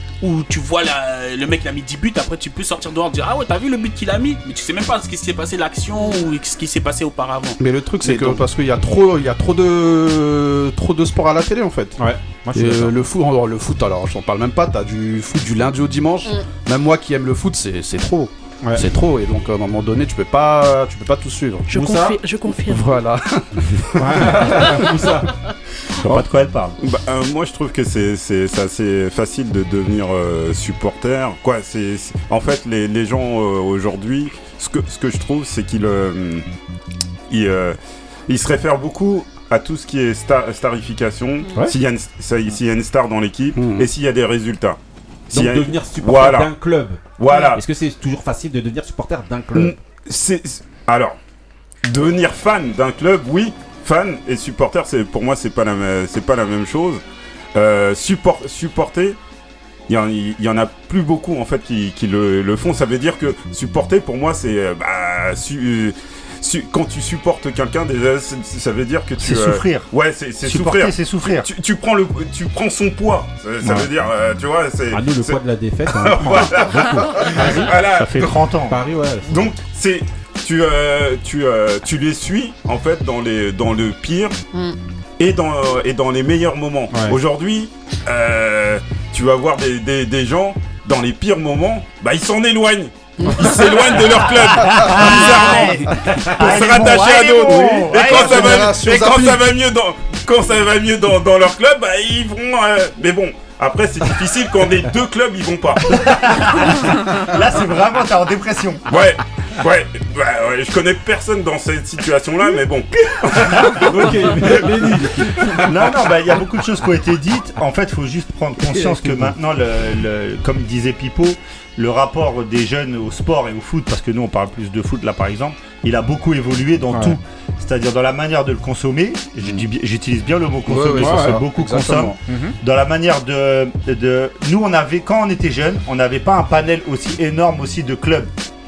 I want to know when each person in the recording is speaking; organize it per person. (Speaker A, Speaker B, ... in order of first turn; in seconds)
Speaker A: 0.2-8.4
Speaker B: 6.0-6.2, 21.7-22.9, 41.4-41.7, 47.3-47.5, 84.5-84.8, 93.2-94.0
Speaker C: 7.6-12.0, 12.5-21.7, 22.6-24.6, 43.5-43.9, 97.5-99.5, 130.7-132.2
Speaker D: 12.0-12.9, 21.7-22.2, 23.9-25.3, 45.3-49.7, 74.9-77.7, 78.7-79.3, 86.9-87.2, 113.6-115.7, 118.6-119.3, 126.9-127.2, 131.0-131.4, 132.2-132.6
Speaker E: 26.0-26.8, 69.2-69.9, 70.4-71.5, 77.8-78.8, 94.1-98.7, 105.9-108.8, 115.5-138.3
Speaker F: 26.8-36.4, 37.3-37.8, 38.3-44.8, 45.3-46.5, 47.2-47.6, 49.5-51.1, 51.8-57.0, 57.5-59.2, 59.9-78.3, 79.3-84.3, 85.2-106.0, 108.9-114.5